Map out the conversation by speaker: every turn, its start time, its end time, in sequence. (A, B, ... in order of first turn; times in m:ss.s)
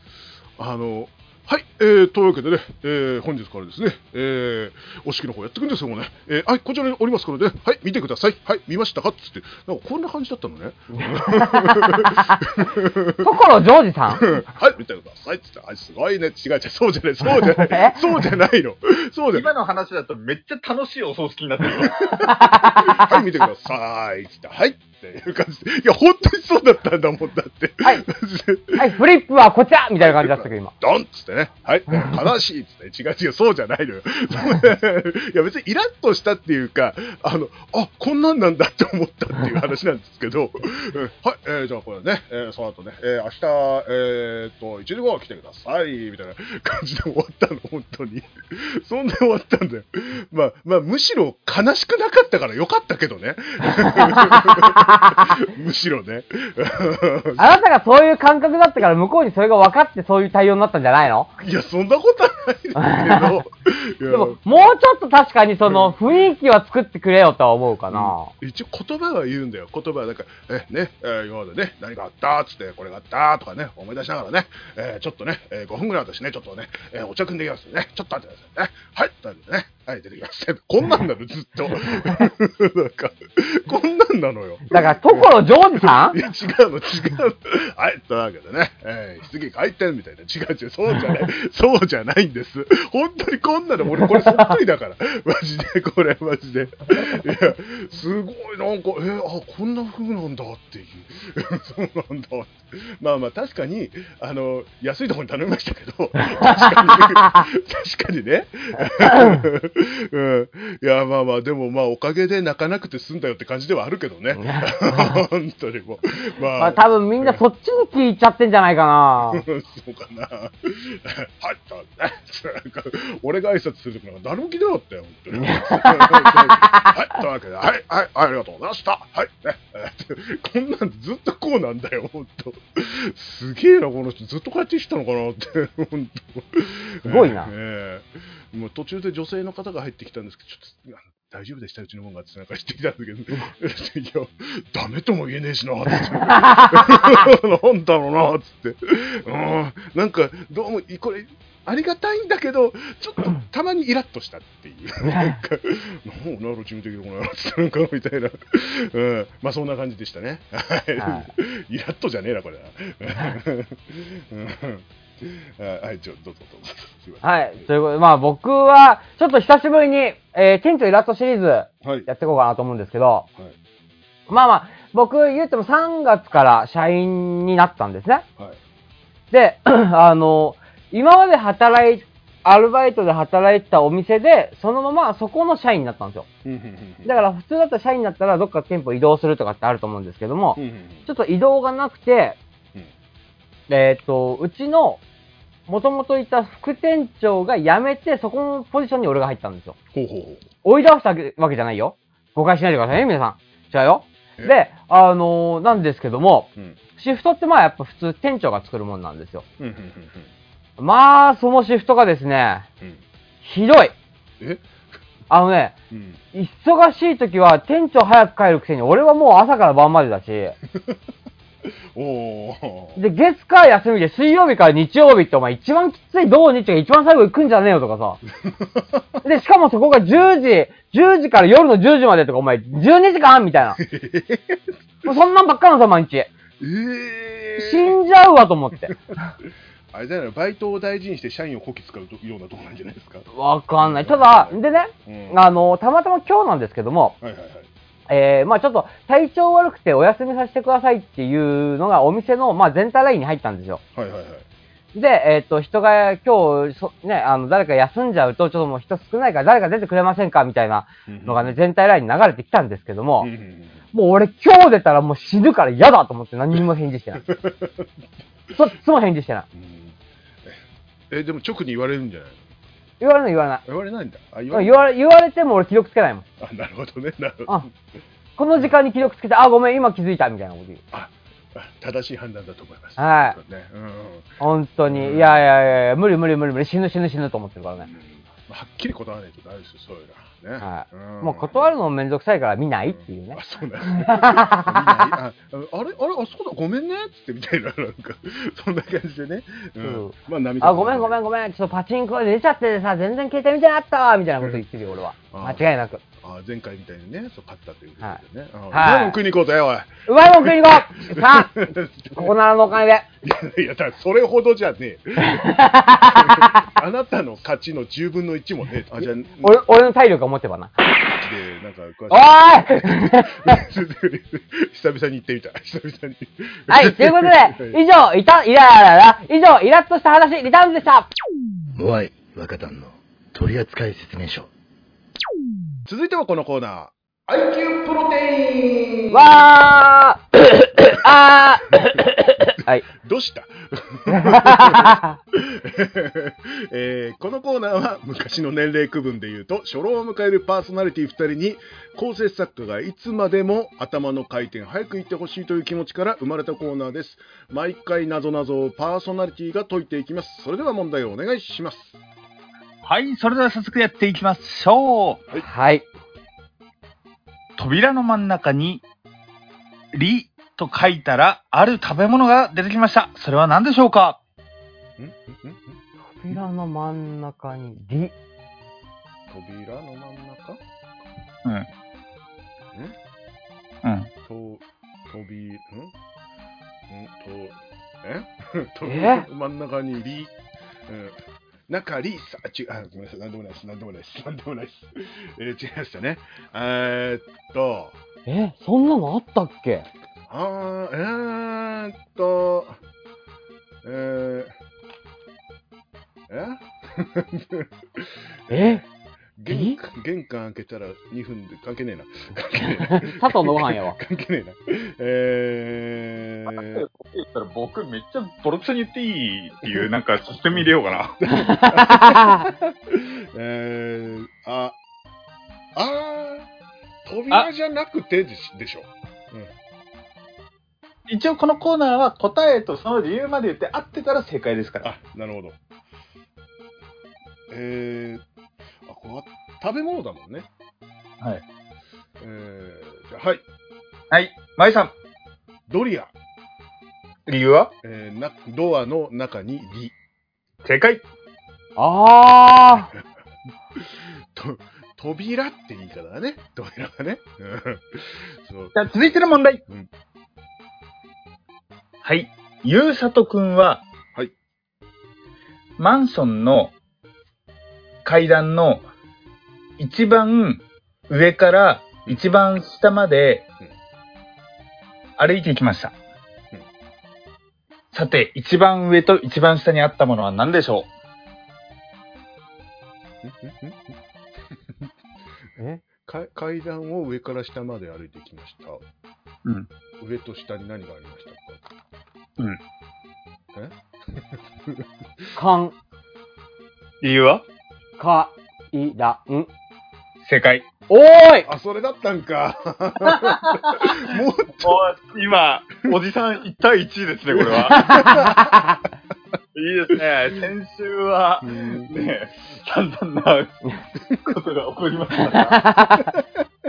0:00.6-0:13.2 A
0:11.0-0:12.1 B
0:13.2-0:14.3 B
0:14.1-0:19.5 A
0:17.4-0:18.0 B
0:19.3-0:22.0 C
0:21.8-0:29.0 A
0:22.2-0:23.1 B
0:28.7-0:30.7 B
0:30.0-0:57.6 A
0:53.7-0:55.2 B
0:57.4-1:01.3 B
1:01.4-1:04.4 A
1:02.8-1:03.3 B
1:04.1-1:08.3 B
1:05.7-1:06.0 A
1:07.9-1:57.4 A
1:24.7-1:26.2 B
1:46.2-1:47.3 B
1:49.0-1:49.4 B
1:54.4-1:55.2 B
1:56.6-1:59.4 B
1:59.3-2:47.7 A
2:05.3-2:06.9 B
2:17.0-2:17.5 B
2:26.2-2:27.2 B
2:35.1-2:35.4 B
2:41.0-2:41.3 B
2:47.2-2:53.3 B
2:51.8-2:52.1 A
2:54.3-2:58.2 B
2:59.3-3:06.3 B
3:06.4-3:07.1 A
3:07.0-3:12.4 B
3:10.6-3:11.1 A
3:13.7-3:15.0 B
3:15.7-3:19.8 B
3:19.9-3:20.4 A
3:20.6-3:29.4 B
3:29.6-3:30.3 A
3:30.8-3:32.6 B
3:33.4-3:33.9 B
3:34.4-3:34.6 A
3:35.3-3:35.7 B
3:35.9-3:36.2 A
3:36.3-3:40.6 B
3:41.6-3:43.0 A
3:43.0-3:48.2 B
3:48.4-3:49.0 A
3:49.2-3:53.8 B
3:53.8-3:54.7 A
3:55.0-3:56.3 B
3:56.6-3:58.0 A
3:57.6-3:59.0 B
3:59.9-4:05.4 A
4:03.3-4:07.2 B
4:07.2-4:07.7 A
4:08.1-4:13.8 B
4:13.9-4:14.4 A
4:14.9-4:23.3 B
4:21.1-4:21.6 A
4:23.2-4:23.8 A
4:23.9-4:27.2 B
4:27.2-4:27.9 A
4:28.5-4:29.4 B
4:29.5-4:32.4 A
4:33.0-4:33.6 B
4:33.6-4:34.8 A
4:34.5-4:36.2 B
4:36.4-4:37.7 A
4:38.4-4:40.8 B
4:40.9-4:44.3 A
4:43.0-4:43.4 B
4:44.4-4:47.9 B
4:44.8-4:45.4 A
4:47.8-4:51.7 A
4:50.6-4:55.1 B
4:52.9-5:01.2 A
4:59.8-5:06.0 B
5:05.3-5:05.6 A
5:06.2-5:12.3 A
5:08.7-5:09.2 B
5:10.1-5:13.0 B
5:13.2-5:19.6 A
5:15.2-5:16.6 B
5:19.4-5:20.7 B
5:21.2-5:27.8 A
5:22.1-5:23.6 B
5:26.7-5:31.1 B
5:31.8-5:34.5 D
5:35.8-5:39.5 A
5:39.1-5:42.8 B
5:42.4-6:02.0 A
5:44.1-5:45.2 B
6:02.8-6:05.2 C
6:05.4-6:05.9 B
6:07.6-6:08.8 C
6:09.9-6:14.2 C
6:15.0-6:15.8 A
6:16.1-6:18.1 B
6:19.3-6:20.6 A
6:23.8-6:24.1 C
6:24.2-6:25.9 A
6:26.9-6:30.3 A
6:28.8-6:29.2 B
6:30.9-6:38.0 A
6:38.2-6:39.9 B
6:40.3-6:42.8 A
6:43.8-6:44.5 A
6:46.3-6:48.8 A
6:48.5-6:48.8 B
6:49.4-6:56.8 A
6:49.5-6:49.8 B
6:52.7-6:54.0 B
6:56.5-7:01.2 C
7:01.2-7:04.8 A
7:01.3-7:02.4 B
7:05.7-7:06.5 A
7:07.0-7:09.5 A
7:11.1-7:14.9 C
7:14.8-7:15.6 A
7:17.5-7:18.2 A
7:18.8-7:20.5 A
7:22.2-7:23.4 A
7:24.1-7:24.9 C
7:25.7-7:26.1 A
7:27.3-7:27.7 C
7:27.8-7:29.9 A
7:30.6-7:31.0 C
7:31.8-7:32.9 B
7:33.7-7:38.7 A
7:38.7-7:39.6 C
7:42.0-7:43.8 C
7:45.8-7:46.7 C
7:48.0-7:48.8 C
7:49.8-7:53.4 C
7:55.2-7:55.9 C
7:57.9-8:00.9 C
8:03.2-8:04.0 A
8:04.5-8:04.8 A
8:06.0-8:08.8 A
8:10.0-8:11.6 A
8:13.5-8:14.9 A
8:15.4-8:15.7 B
8:17.0-8:17.4 C
8:18.0-8:19.5 B
8:20.2-8:20.7 C
8:20.9-8:21.5 B
8:21.4-8:24.8 A
8:23.1-8:24.1 C
8:24.6-8:27.9 C
8:27.3-8:28.7 A
8:27.7-8:28.8 B
8:29.5-8:33.6 C
8:31.4-8:31.9 A
8:34.1-8:35.6 C
8:35.4-8:36.1 B
8:35.9-8:36.4 A